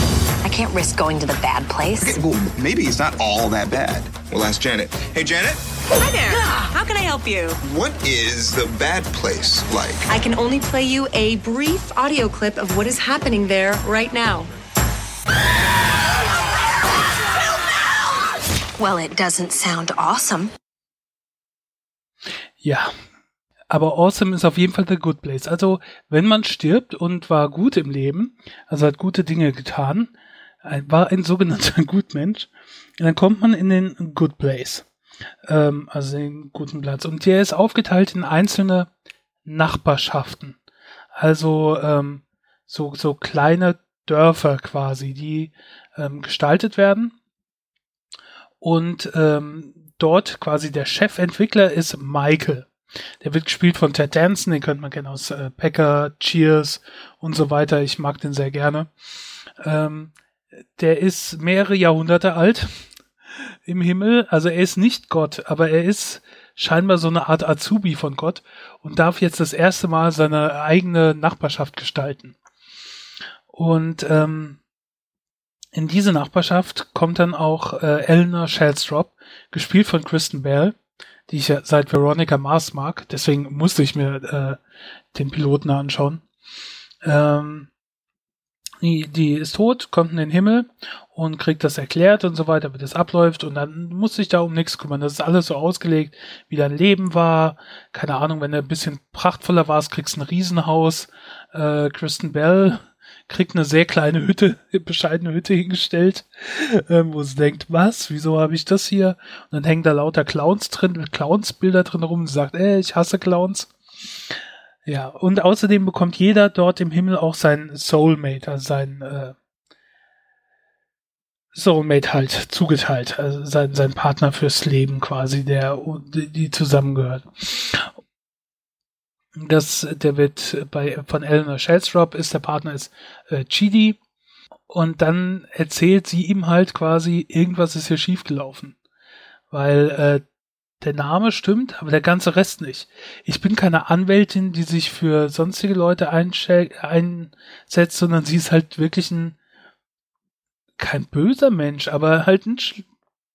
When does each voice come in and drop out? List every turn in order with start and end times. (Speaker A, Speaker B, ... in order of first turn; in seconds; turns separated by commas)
Speaker A: 0.4-2.2, Speaker B: 2.0-5.6, Speaker C: 5.9-7.6, Speaker A: 6.2-6.7, Speaker B: 7.6-10.1, Speaker C: 10.1-14.5, Speaker A: 18.8-20.5, Speaker D: 22.6-22.9, Speaker D: 23.7-30.1, Speaker D: 30.6-34.8, Speaker D: 35.5-38.9, Speaker D: 39.4-40.6, Speaker D: 41.2-47.1, Speaker D: 48.6-52.7, Speaker D: 53.2-58.9, Speaker D: 59.6-60.1, Speaker D: 60.8-62.8, Speaker D: 63.6-72.3, Speaker D: 73.5-74.6, Speaker D: 75.7-80.7, Speaker D: 81.3-84.6, Speaker D: 85.1-86.2, Speaker D: 87.0-87.7, Speaker D: 88.8-113.7, Speaker D: 114.8-119.3, Speaker D: 121.5-127.9, Speaker D: 129.3-134.0, Speaker D: 134.7-138.7, Speaker D: 139.5-140.2, Speaker D: 140.8-149.3, Speaker D: 150.8-152.8